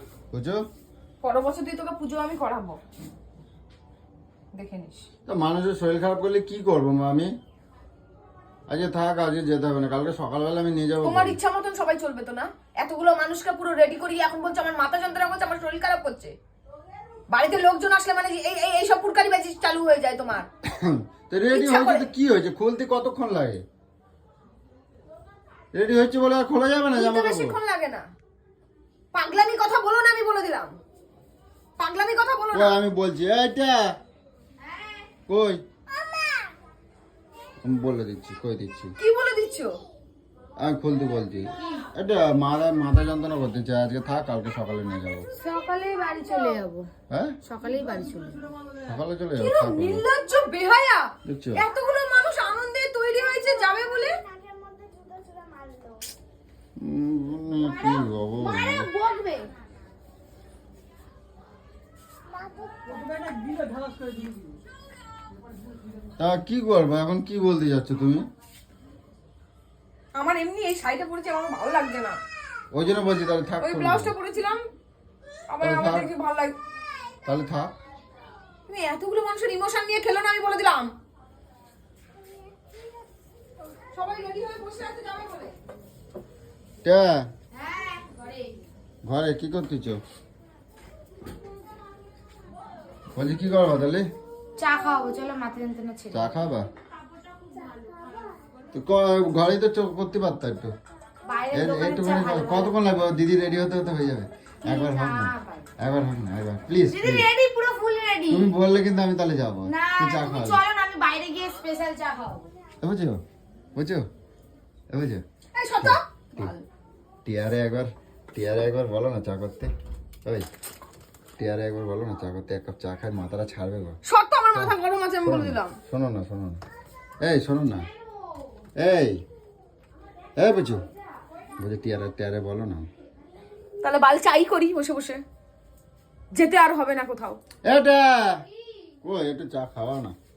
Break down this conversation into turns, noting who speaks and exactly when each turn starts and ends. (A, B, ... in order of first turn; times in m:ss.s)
0:00.3-0:00.6 A
0:01.2-0:02.8 B
0:04.5-0:05.1 B
0:05.2-0:07.3 A
0:08.7-0:11.4 A
0:11.0-0:16.4 B
0:17.3-0:20.5 B
0:20.6-0:23.6 A
0:21.5-0:22.1 B
0:25.7-0:27.6 A
0:26.9-0:28.0 B
0:29.1-0:30.8 B
0:31.8-0:32.8 B
0:32.5-0:34.0 A
0:35.3-0:35.6 A
0:37.6-0:38.9 A
0:39.0-0:39.8 B
0:40.6-0:45.3 A
0:41.6-0:41.8 C
0:45.4-0:46.9 C
0:47.1-0:47.4 A
0:47.4-0:48.4 C
0:48.8-0:50.0 A
0:49.3-0:54.2 B
0:51.2-0:51.6 A
0:56.8-0:58.9 A
0:57.8-0:59.5 B
1:06.2-1:08.2 A
1:10.2-1:12.2 B
1:12.7-1:14.1 A
1:13.6-1:14.6 B
1:15.5-1:16.6 B
1:15.6-1:16.1 A
1:17.2-1:17.7 A
1:18.7-1:20.9 B
1:23.9-1:25.5 B
1:26.8-1:27.3 A
1:27.6-1:28.5 C
1:29.0-1:30.0 A
1:33.1-1:34.1 A
1:34.6-1:36.4 C
1:36.1-1:36.7 A
1:38.7-1:40.7 A
1:41.2-1:42.7 C
1:41.5-1:47.3 A
1:44.6-1:45.7 C
1:46.9-1:48.5 C
1:48.3-1:50.6 A
1:49.7-1:52.5 C
1:52.8-1:53.2 A
1:53.7-1:54.0 A
1:54.9-1:55.2 A
1:55.5-1:56.6 B
1:55.8-1:56.5 A
1:57.2-1:59.7 A
2:01.4-2:04.0 A
2:04.0-2:05.7 B
2:05.2-2:06.6 A
2:07.2-2:07.9 A
2:08.8-2:09.2 A
2:10.4-2:10.8 A
2:11.6-2:12.9 A
2:13.8-2:15.2 B
2:16.3-2:17.4 B
2:17.6-2:18.4 A
2:19.0-2:20.2 A